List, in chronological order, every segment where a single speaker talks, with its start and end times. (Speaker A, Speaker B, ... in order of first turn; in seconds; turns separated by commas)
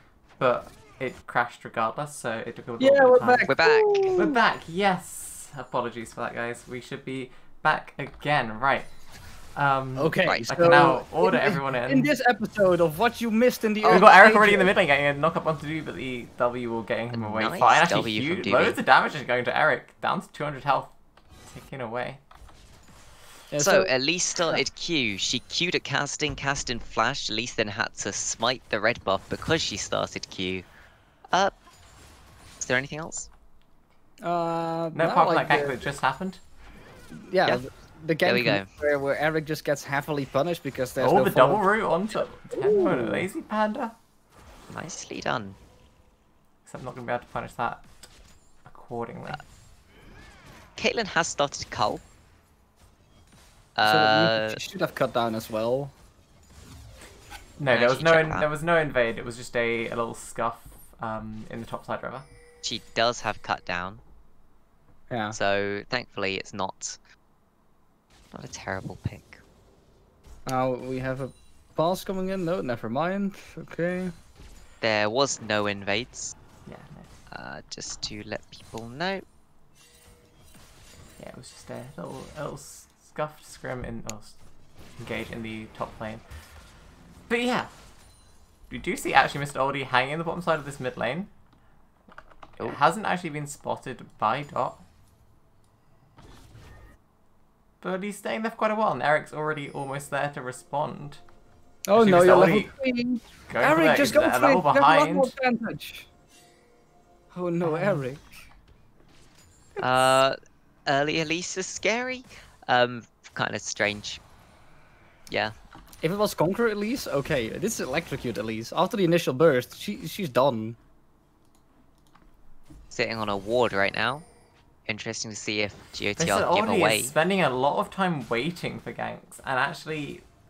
Speaker A: 0.4-3.5, Speaker B: 2.8-4.4, Speaker C: 3.5-4.2, Speaker A: 4.2-8.9, Speaker A: 9.6-12.1, Speaker B: 9.9-14.7, Speaker C: 10.2-10.5, Speaker A: 13.8-20.9, Speaker C: 17.1-18.8, Speaker A: 21.4-22.2, Speaker B: 23.5-24.6, Speaker C: 23.6-30.6, Speaker C: 32.6-33.3, Speaker B: 34.2-35.8, Speaker A: 34.9-36.4, Speaker B: 37.1-41.7, Speaker C: 38.2-38.7, Speaker A: 41.0-43.9, Speaker B: 42.5-43.3, Speaker C: 44.7-45.6, Speaker A: 46.6-47.9, Speaker A: 48.6-49.4, Speaker C: 50.8-52.0, Speaker C: 53.8-54.6, Speaker B: 53.8-55.9, Speaker A: 57.6-62.2, Speaker C: 57.7-58.5, Speaker C: 62.6-64.0, Speaker B: 65.1-65.4, Speaker C: 65.3-67.0, Speaker C: 68.3-69.4, Speaker B: 70.5-74.1, Speaker C: 74.8-76.3, Speaker A: 76.7-77.1, Speaker C: 77.3-79.2, Speaker A: 81.2-84.4, Speaker A: 85.0-86.2, Speaker A: 87.3-87.7, Speaker A: 88.7-91.3, Speaker A: 92.6-94.8, Speaker A: 97.8-101.2, Speaker B: 101.9-106.1, Speaker A: 101.9-102.7, Speaker A: 103.5-105.3, Speaker B: 107.3-108.4, Speaker A: 107.6-108.0, Speaker A: 109.8-110.2, Speaker C: 109.8-110.3, Speaker C: 110.9-114.2, Speaker C: 115.3-115.5, Speaker B: 116.0-120.8, Speaker C: 122.9-124.2, Speaker C: 124.8-127.1, Speaker A: 126.2-130.2